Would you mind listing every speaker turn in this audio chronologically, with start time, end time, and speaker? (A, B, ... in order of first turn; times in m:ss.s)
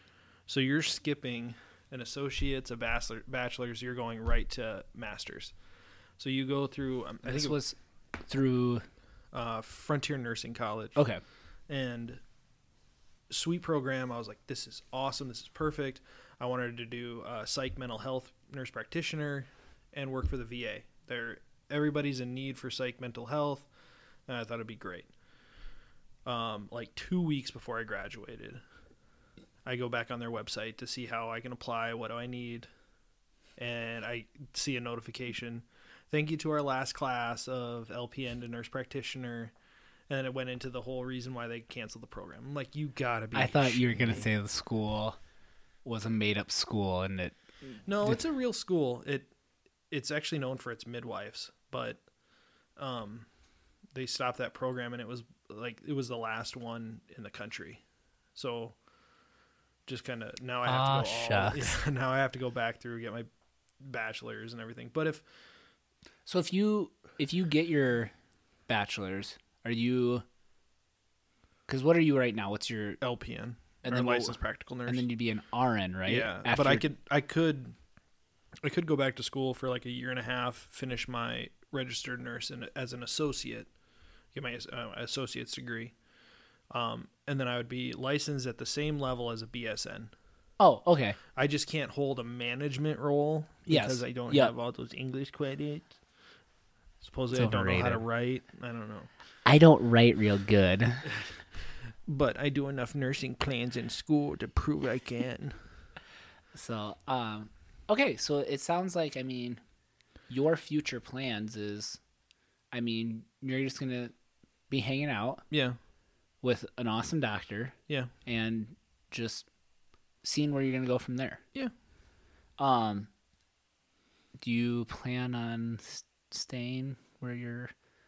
0:00.5-0:05.5 A
0:06.2-0:07.6 A
0:07.2-0:08.8 B
0:09.3-0:11.0 A
0:11.0-0:11.2 B
0:11.7-0:12.2 A
0:13.3-0:23.7 A
0:24.3-0:25.1 A
0:26.2-0:28.6 A
0:29.6-0:32.7 A
0:33.6-0:39.5 A
0:40.1-0:44.3 A
0:43.3-0:45.2 B
0:45.8-0:48.2 B
0:47.8-0:49.3 A
0:49.9-0:52.0 A
0:52.8-0:53.3 A
0:53.9-0:57.8 A
0:58.3-0:58.8 A
0:59.8-1:03.3 A
1:00.6-1:01.8 B
1:03.8-1:05.2 A
1:06.3-1:08.1 B
1:08.7-1:10.2 B
1:11.7-1:13.0 B
1:13.0-1:15.0 A
1:13.8-1:16.8 B
1:16.0-1:17.8 A
1:18.6-1:23.7 A
1:24.3-1:25.9 A
1:26.7-1:30.1 A
1:30.6-1:31.2 B
1:31.3-1:35.9 A
1:33.7-1:34.5 B
1:37.0-1:39.1 A
1:37.3-1:38.0 B
1:39.4-1:41.1 B
1:42.0-1:45.5 A
1:46.5-1:49.6 B
1:50.3-1:52.0 B
1:52.7-1:54.1 B
1:54.7-1:55.4 B
1:55.5-1:55.8 A
1:56.4-1:57.7 B
1:58.2-1:59.5 B
2:00.2-2:01.4 B
2:02.6-2:03.1 B
2:04.4-2:07.7 B